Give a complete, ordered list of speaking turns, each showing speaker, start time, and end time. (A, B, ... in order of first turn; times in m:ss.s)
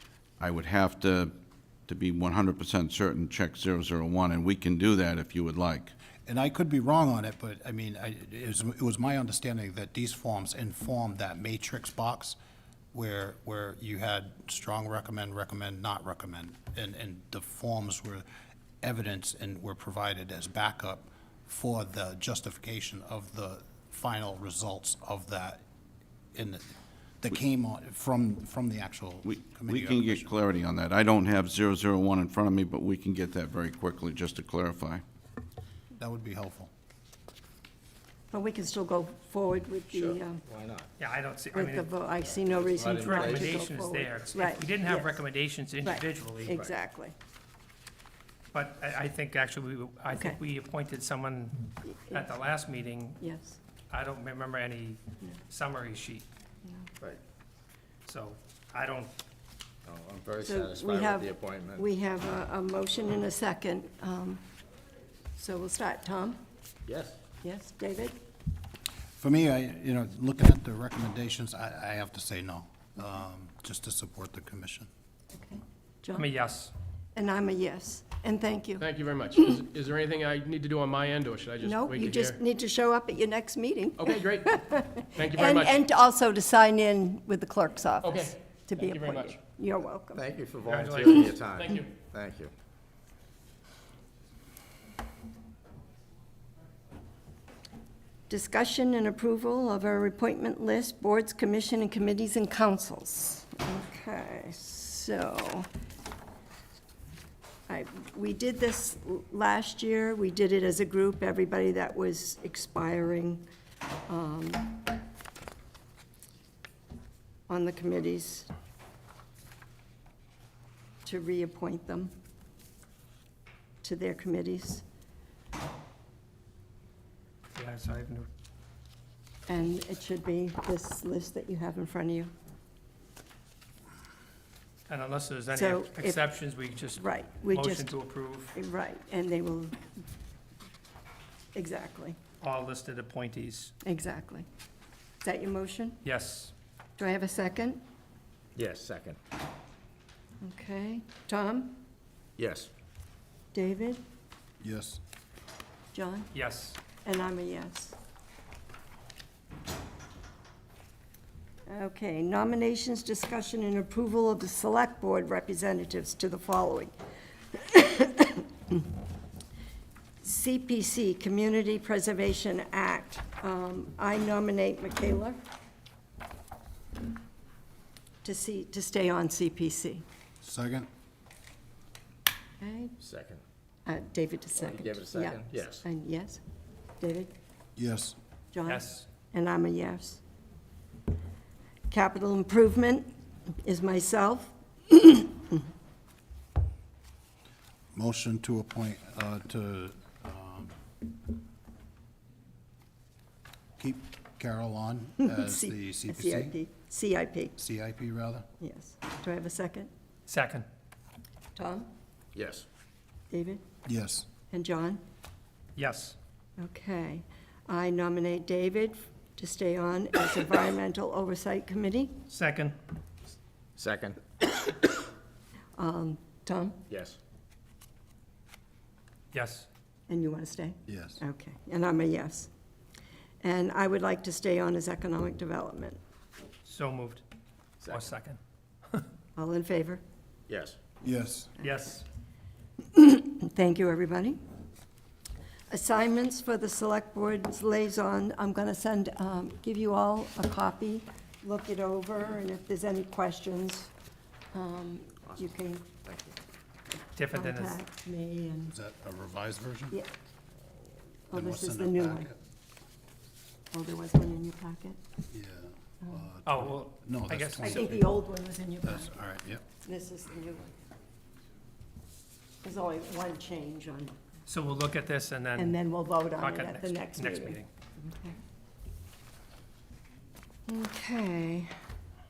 0:00.4-0:01.3 A
0:01.9-0:06.0 A
0:06.2-0:12.4 B
0:12.9-0:18.2 B
0:18.8-0:25.6 B
0:26.4-0:26.7 B
0:27.2-0:30.3 B
0:29.3-0:35.0 A
0:36.0-0:36.7 B
0:38.3-0:40.4 C
0:39.9-0:40.9 D
0:41.0-0:41.9 E
0:41.5-0:45.3 C
0:42.6-0:43.7 D
0:42.8-0:46.6 E
0:45.8-0:47.1 C
0:46.5-0:46.8 D
0:48.5-0:53.2 E
0:50.1-0:50.4 C
0:51.8-0:52.4 C
0:53.2-0:53.6 C
0:53.9-0:56.2 E
0:58.0-0:59.1 E
0:59.8-1:01.9 D
1:00.4-1:04.4 C
1:05.4-1:06.4 C
1:06.9-1:07.2 D
1:07.4-1:08.2 C
1:09.2-1:14.9 B
1:15.3-1:16.3 C
1:16.2-1:16.7 E
1:17.2-1:19.6 C
1:18.8-1:22.4 F
1:21.6-1:30.3 C
1:24.0-1:25.8 F
1:28.0-1:29.4 F
1:30.2-1:32.5 D
1:30.7-1:31.4 E
1:31.6-1:31.9 F
1:38.3-1:45.7 C
1:47.7-1:53.4 C
1:54.1-1:54.8 C
1:57.5-1:58.5 C
2:01.0-2:02.1 C
2:03.8-2:04.8 C
2:07.6-2:08.3 E
2:09.5-2:12.3 C
2:14.9-2:18.5 E
2:15.5-2:16.3 C
2:16.9-2:18.0 C
2:18.5-2:19.8 C
2:21.6-2:22.2 C
2:22.4-2:23.7 E
2:23.8-2:24.5 C
2:25.2-2:26.0 C
2:26.0-2:26.5 E
2:27.0-2:27.8 C
2:28.6-2:29.2 D
2:30.4-2:31.8 C
2:32.4-2:32.7 D
2:33.5-2:34.0 C
2:34.6-2:35.0 B
2:35.9-2:36.3 C
2:36.3-2:36.8 E
2:36.9-2:38.0 C
2:41.7-2:46.9 C
2:47.5-2:48.8 C
2:50.2-2:55.4 C
2:58.2-3:00.0 C
3:00.4-3:00.9 B
3:02.6-3:03.0 C
3:03.0-3:03.4 D
3:03.8-3:06.4 C
3:04.6-3:05.8 D
3:07.0-3:07.3 C
3:07.8-3:08.2 B
3:08.5-3:10.2 C
3:08.7-3:09.1 E
3:11.9-3:13.1 C
3:13.6-3:15.7 C
3:17.9-3:20.7 B
3:23.8-3:26.6 B
3:25.2-3:27.6 C
3:27.6-3:28.5 B
3:28.6-3:29.9 C
3:30.3-3:30.7 E
3:31.6-3:31.9 C
3:32.3-3:32.7 D
3:33.3-3:33.6 C
3:33.8-3:34.3 B
3:34.5-3:35.0 C
3:35.8-3:36.2 E
3:36.6-3:42.2 C
3:42.3-3:42.7 E
3:43.8-3:44.2 D
3:45.8-3:46.8 C
3:46.9-3:47.2 D
3:49.3-3:49.7 E
3:50.1-3:52.5 C
3:50.9-3:51.2 B
3:53.4-3:56.0 C
3:56.6-3:57.2 E
3:57.8-3:58.1 D
3:57.9-3:58.4 E
3:59.4-4:00.0 C
4:00.5-4:00.8 D
4:01.0-4:01.5 B
4:01.6-4:02.0 E
4:02.9-4:04.4 C
4:05.7-4:13.9 C
4:14.5-4:15.9 C
4:16.0-4:16.4 D
4:17.2-4:17.8 E
4:17.3-4:18.7 C
4:18.7-4:20.0 B
4:21.3-4:22.3 C
4:21.3-4:22.4 B
4:23.7-4:25.0 C
4:25.3-4:28.2 B
4:26.5-4:28.0 E
4:27.6-4:29.1 C
4:28.8-4:29.6 B
4:29.8-4:30.7 C
4:32.6-4:34.1 C
4:34.5-4:35.8 E
4:35.6-4:38.4 C
4:36.4-4:37.7 E
4:40.7-4:41.7 C